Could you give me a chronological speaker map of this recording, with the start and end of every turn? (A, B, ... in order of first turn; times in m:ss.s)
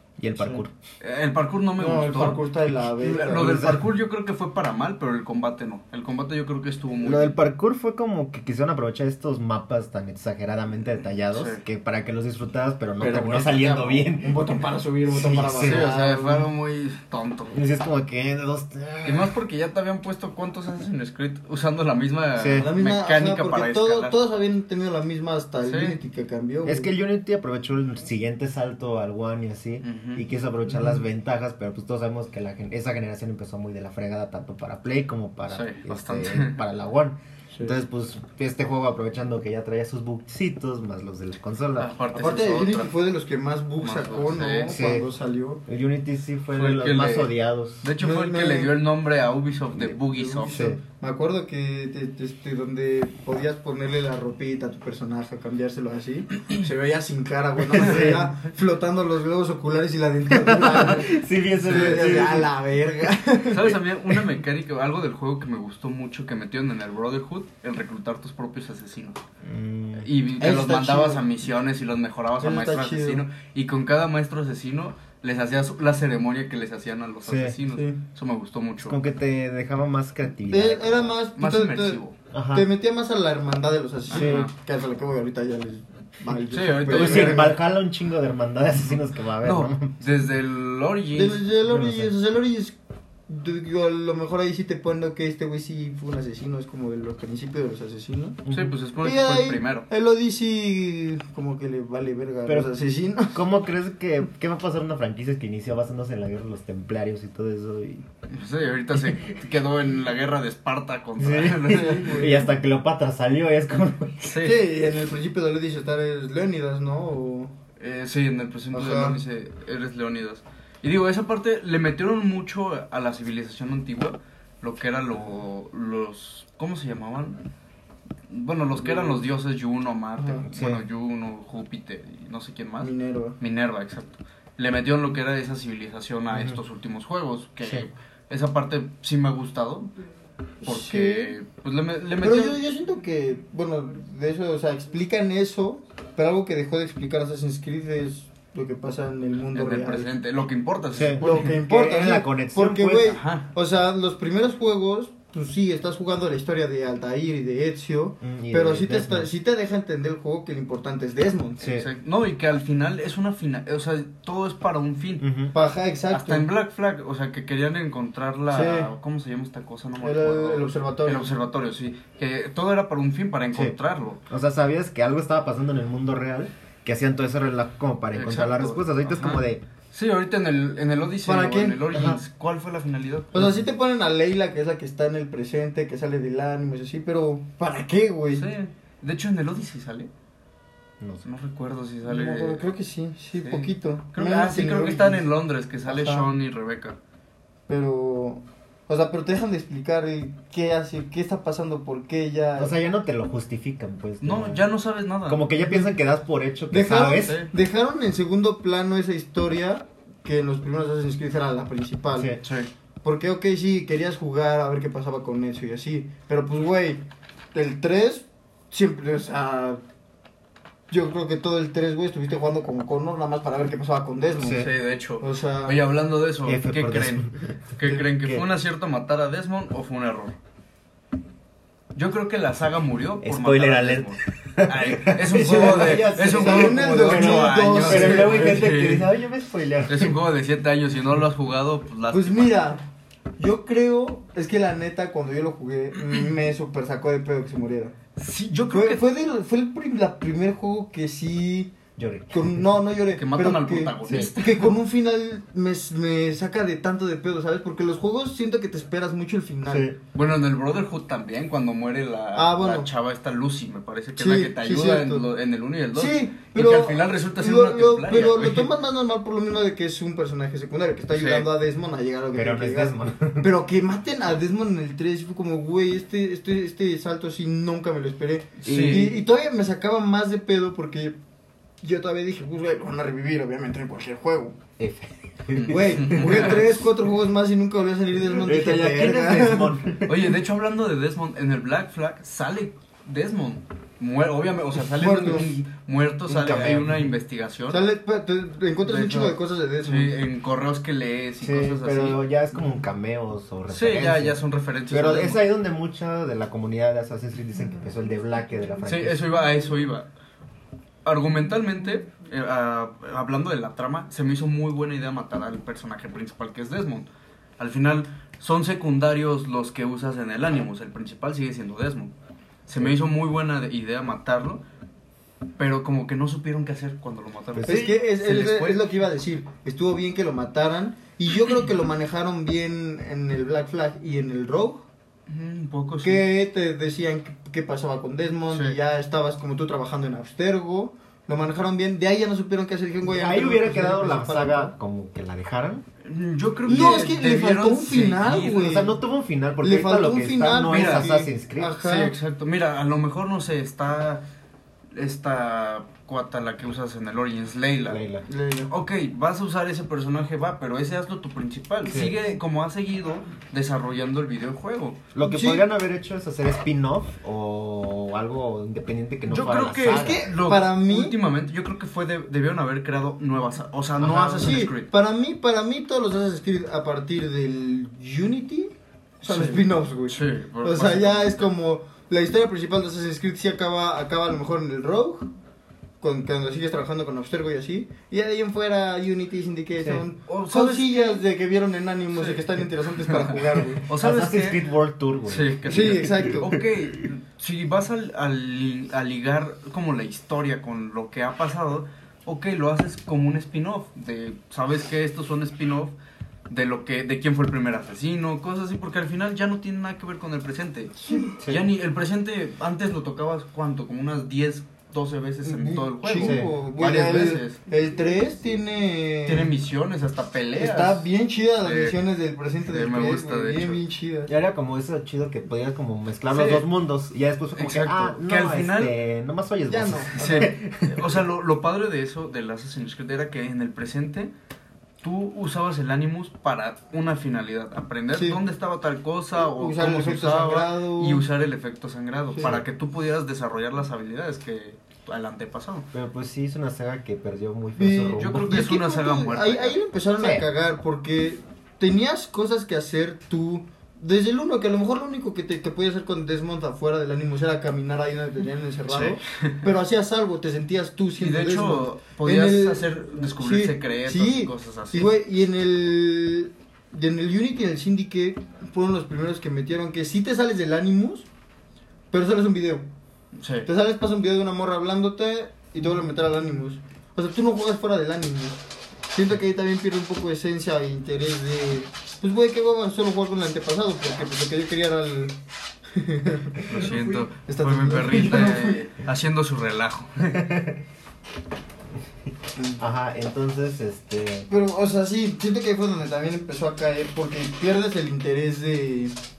0:00.2-0:00.7 A
0:00.4-0:00.6 B
0:01.0-0:07.3 C
0:01.8-0:03.7 B
0:02.7-0:03.9 A
0:07.0-0:14.4 A
0:11.3-0:11.6 C
0:13.0-0:16.5 B
0:15.1-0:15.9 A
0:15.6-0:17.6 C
0:17.5-0:19.4 A
0:19.0-0:24.2 C
0:22.4-0:22.7 A
0:22.6-0:26.9 B
0:25.6-0:26.0 C
0:26.6-0:41.9 A
0:29.8-0:30.2 C
0:35.5-0:36.6 C
0:41.8-0:42.9 C
0:42.1-0:45.6 B
0:43.8-0:44.8 C
0:44.7-0:45.1 A
0:45.7-0:47.8 A
0:46.6-0:50.6 C
0:48.0-0:48.7 B
0:50.0-1:03.8 B
0:50.5-0:50.8 A
0:57.7-0:58.3 A
1:00.3-1:02.5 A
1:01.7-1:02.3 C
1:03.5-1:09.2 C
1:09.4-1:10.1 A
1:10.0-1:19.0 C
1:10.4-1:11.2 B
1:12.4-1:13.2 B
1:17.2-1:17.6 A
1:17.7-1:18.0 B
1:18.8-1:21.2 A
1:20.5-1:27.6 B
1:21.4-1:22.2 C
1:22.3-1:22.7 A
1:24.1-1:24.5 C
1:24.1-1:24.5 A
1:26.5-1:27.6 C
1:26.9-1:29.9 A
1:29.4-1:31.4 C
1:31.2-1:32.8 B
1:31.7-1:32.1 A
1:33.3-1:38.4 B
1:38.4-1:38.8 A
1:38.5-1:39.9 C
1:39.0-1:43.4 B
1:43.3-1:48.1 A
1:48.3-1:52.2 C
1:51.2-1:54.4 A
1:51.7-1:52.5 B
1:54.2-1:54.6 C
1:54.4-1:57.5 B
1:57.8-2:07.4 C
1:58.7-1:59.2 B
2:08.3-2:19.9 C
2:08.8-2:09.2 B
2:10.2-2:10.4 B
2:10.5-2:10.8 A
2:12.8-2:13.4 B
2:16.3-2:16.6 A
2:20.6-2:21.3 B
2:20.6-2:22.6 C
2:22.2-2:30.1 B
2:29.5-2:31.6 C
2:30.9-2:33.2 A
2:31.2-2:41.6 B
2:33.1-2:33.5 C
2:38.2-2:39.3 A
2:41.6-2:41.9 A
2:41.6-2:45.3 C
2:45.2-2:45.5 A
2:45.5-2:46.5 B
2:46.1-2:54.2 C
2:48.5-2:48.9 B
2:50.0-2:51.3 B
2:54.3-2:59.6 A
2:58.1-3:03.4 C
3:01.2-3:02.1 B
3:01.9-3:02.2 A
3:03.3-3:08.5 B
3:03.4-3:03.6 A
3:08.3-3:10.1 C
3:11.0-3:11.2 A
3:11.2-3:12.6 C
3:12.0-3:15.3 B
3:13.4-3:17.0 C
3:15.9-3:16.3 B
3:17.7-3:22.7 B
3:22.6-3:24.7 A
3:24.2-3:25.4 C
3:25.3-3:27.4 A
3:26.7-3:32.3 B
3:27.1-3:27.5 C
3:32.1-3:32.4 A
3:32.4-3:32.7 C
3:33.0-3:37.0 B
3:37.5-3:39.8 B
3:40.9-3:44.7 B
3:44.4-3:44.7 A
3:44.4-3:50.4 C
3:45.2-3:45.8 B
3:46.4-3:48.4 A
3:51.9-3:59.1 C
3:53.2-4:00.2 A
3:55.3-3:58.6 B
3:59.9-4:02.7 C
4:02.1-4:02.8 B
4:03.4-4:08.0 B
4:08.2-4:09.0 C
4:08.7-4:11.8 B
4:12.0-4:12.6 A
4:12.3-4:19.9 B
4:13.2-4:14.8 C
4:14.0-4:14.3 A
4:19.7-4:20.0 A
4:20.1-4:28.7 C
4:22.3-4:22.9 B
4:24.2-4:25.2 B
4:26.0-4:41.2 B
4:31.1-4:31.5 C
4:32.4-4:33.5 A
4:38.6-4:39.2 C
4:38.6-4:39.2 A
4:41.8-4:44.6 B
4:44.8-4:46.6 A
4:45.5-4:46.7 C
4:45.7-4:49.8 B
4:48.3-4:50.4 A
4:50.0-4:57.8 C
4:54.9-4:55.6 B
4:56.3-4:57.1 A
4:57.7-5:00.1 B
4:58.8-5:02.2 C
5:01.4-5:09.3 A
5:03.7-5:05.4 C
5:08.8-5:10.1 C
5:11.0-5:22.1 C
5:22.7-5:24.6 C
5:25.6-5:28.8 C
5:27.6-5:28.0 A
5:27.7-5:34.8 B
5:35.3-5:36.3 C
5:36.0-5:44.7 B
5:38.5-5:38.8 C
5:43.1-5:45.8 A
5:46.0-5:48.8 C
5:46.7-5:49.0 B
5:48.5-5:51.8 A
5:49.6-5:52.2 B
5:50.7-5:51.1 C
5:51.8-5:54.2 C
5:54.9-5:58.0 C
5:57.9-5:58.2 A
5:58.3-5:58.7 B
5:58.7-6:05.0 C
6:01.9-6:02.2 A
6:05.2-6:10.3 A
6:05.2-6:05.6 B
6:09.3-6:14.9 C
6:09.9-6:11.2 B
6:14.0-6:14.6 A
6:14.1-6:25.3 B
6:19.2-6:21.4 C
6:26.0-6:33.8 B
6:29.8-6:30.1 A
6:30.3-6:31.2 C
6:32.1-6:34.6 C
6:33.9-6:37.1 A
6:35.3-6:46.0 C
6:35.7-6:36.5 B
6:46.5-6:57.6 C
6:51.4-6:51.7 A
6:55.4-6:59.5 B
6:56.2-6:56.5 A
6:59.3-7:01.1 C
7:00.6-7:04.3 B
7:01.6-7:02.0 C
7:02.7-7:03.8 C
7:04.3-7:11.2 A
7:06.3-7:06.7 C
7:07.6-7:09.0 C
7:09.7-7:10.5 B
7:10.2-7:14.3 C
7:15.0-7:25.9 C
7:18.1-7:18.4 B
7:19.3-7:21.2 B
7:25.9-7:28.6 A
7:27.8-7:51.3 B
7:28.2-7:29.8 C
7:30.2-7:30.5 A
7:38.9-7:39.6 C
7:41.2-7:45.1 C
7:52.1-7:52.9 B
7:53.4-7:53.7 C
7:53.6-7:58.6 B
7:59.1-8:05.4 B
8:05.9-8:08.9 B
8:06.7-8:10.5 C
8:10.4-8:10.8 A
8:12.8-8:14.5 A
8:14.5-8:19.2 B